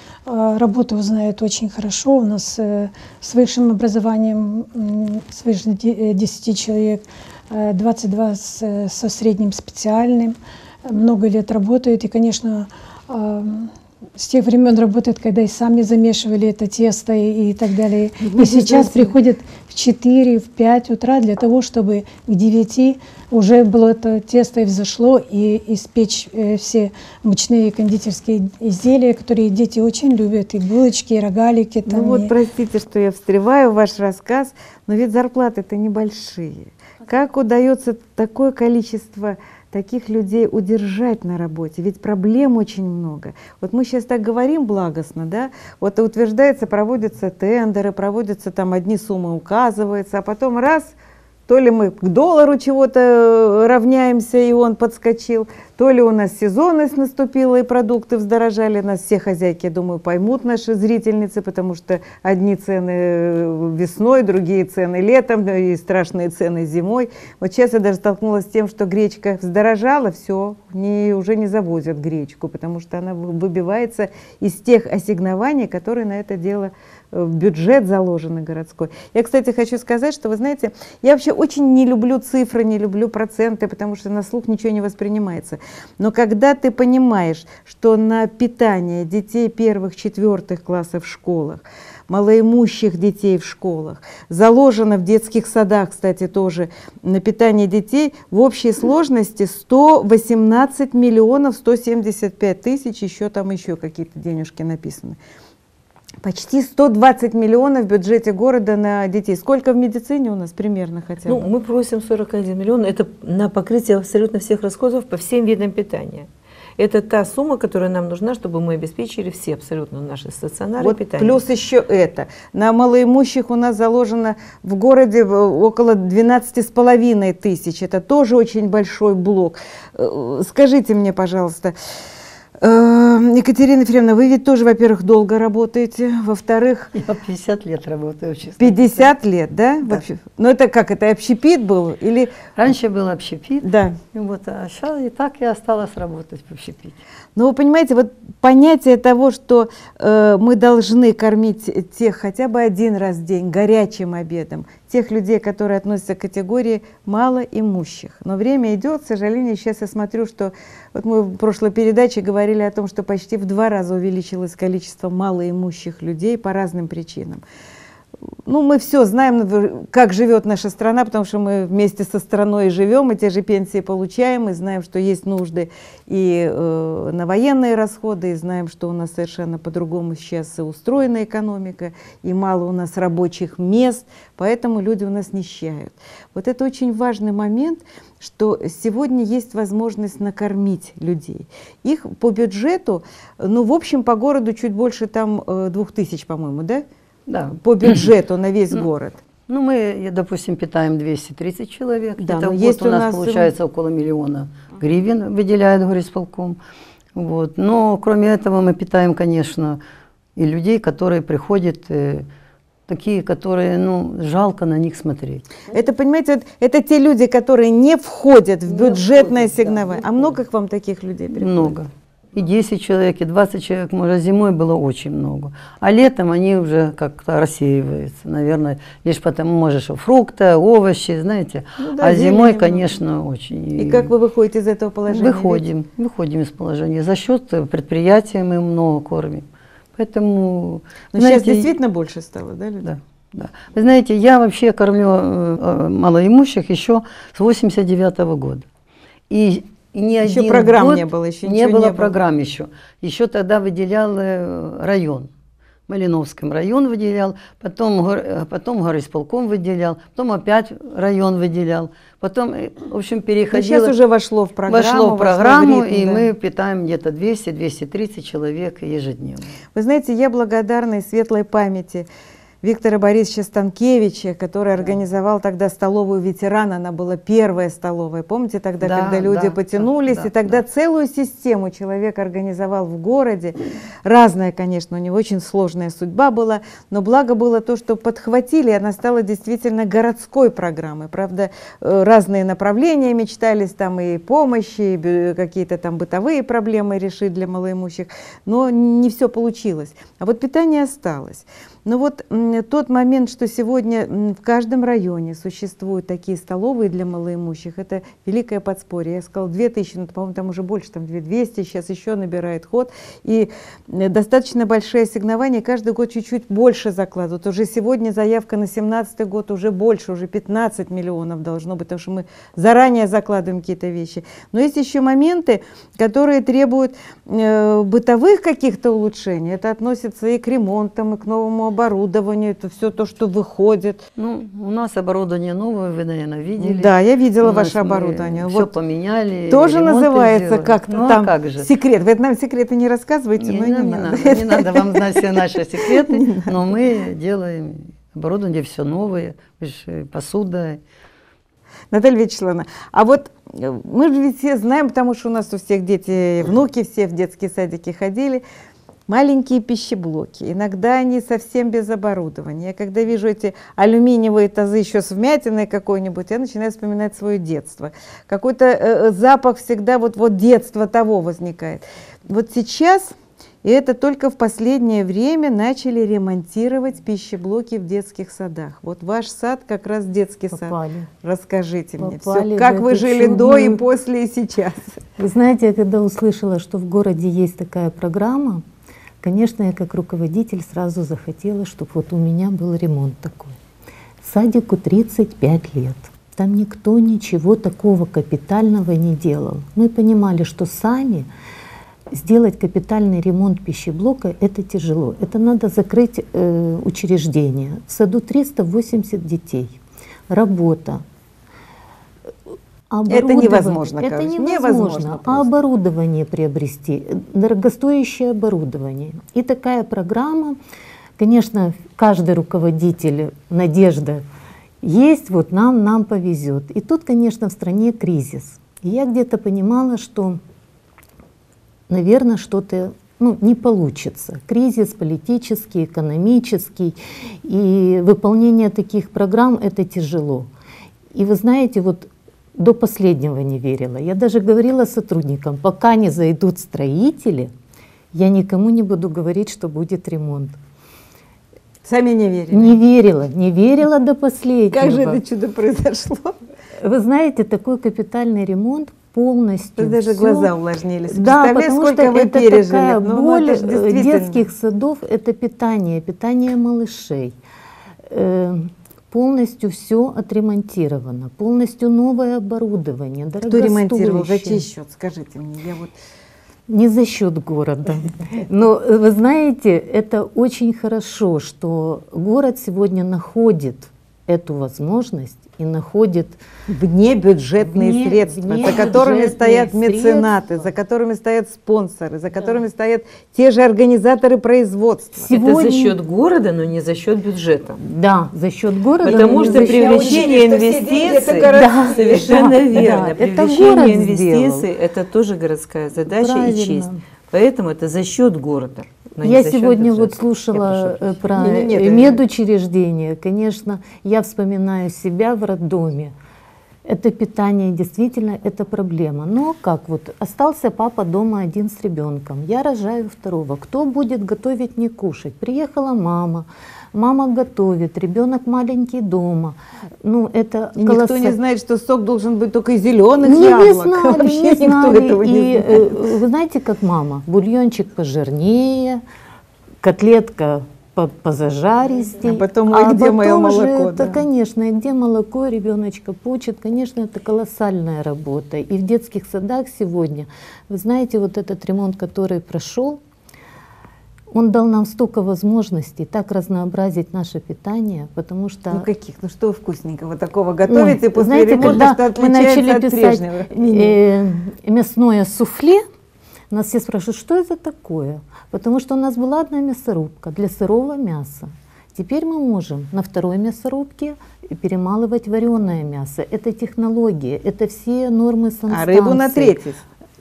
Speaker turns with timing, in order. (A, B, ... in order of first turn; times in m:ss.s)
0:00.2-0:32.3 A
0:18.2-0:19.1 B
0:31.9-0:50.9 B
0:51.5-1:45.2 B
1:46.2-1:51.4 B
1:51.3-2:01.4 C
2:00.8-2:11.7 B
2:12.6-2:16.9 B
2:16.9-2:19.1 D
2:18.6-2:22.3 B
2:22.6-2:27.0 D
2:23.6-2:24.0 B
2:27.4-2:47.4 B
2:48.4-3:16.8 B
3:17.3-3:18.0 D
3:17.6-3:19.2 B
3:19.5-3:26.6 D
3:22.2-3:23.5 B
3:27.1-3:29.8 D
3:30.4-3:32.3 D
3:32.9-3:35.7 D
3:35.7-3:41.7 B
3:38.7-3:40.4 D
3:41.3-3:54.1 D
3:51.8-3:52.9 B
3:53.8-3:55.6 B
3:55.1-4:01.7 D
4:01.1-4:02.9 B
4:02.8-4:08.6 D
4:09.3-4:15.3 D
4:10.2-4:12.2 B
4:15.9-4:24.0 D
4:23.5-4:26.3 B
4:24.7-4:29.5 D
4:29.7-4:32.1 B
4:32.6-5:34.0 B
4:38.8-4:40.6 D
5:34.2-5:41.7 D
5:36.6-5:38.7 B
5:39.5-5:46.5 B
5:43.4-5:50.8 D
5:51.9-5:58.4 B
5:59.1-6:25.0 B
6:20.5-6:21.1 E
6:22.0-6:23.8 E
6:25.2-6:28.6 E
6:29.2-6:33.6 E
6:34.2-6:41.3 E
6:42.1-6:49.8 E
6:50.3-6:51.0 E
6:52.9-7:00.6 E
6:53.1-6:55.5 B
7:01.2-7:04.2 E
7:04.8-7:10.4 E
7:11.9-7:20.5 E
7:21.1-7:27.5 E
7:28.1-7:30.6 E
7:31.8-7:32.8 B
7:32.5-7:35.2 E
7:34.7-7:36.3 B
7:36.8-7:40.5 E
7:39.8-7:44.4 B
7:41.1-7:47.4 E
7:48.1-7:54.7 E
7:53.5-7:55.9 B
7:56.7-8:06.4 E
8:06.7-8:15.3 B
8:07.6-8:10.6 E
8:15.2-8:16.0 E
8:15.3-8:17.8 C
8:17.8-8:20.3 E
8:19.0-8:31.2 C
8:19.0-8:22.3 B
8:21.5-8:24.7 E
8:26.1-8:27.0 E
8:29.2-8:36.1 E
8:31.3-8:32.2 B
8:36.8-8:51.4 E
8:50.8-8:55.9 B
8:53.2-8:59.0 E
8:59.8-9:13.0 E
9:02.2-9:04.2 B
9:14.3-9:18.9 E
9:18.7-9:24.0 B
9:20.7-9:25.8 E
9:26.5-9:39.6 E
9:38.7-9:39.8 B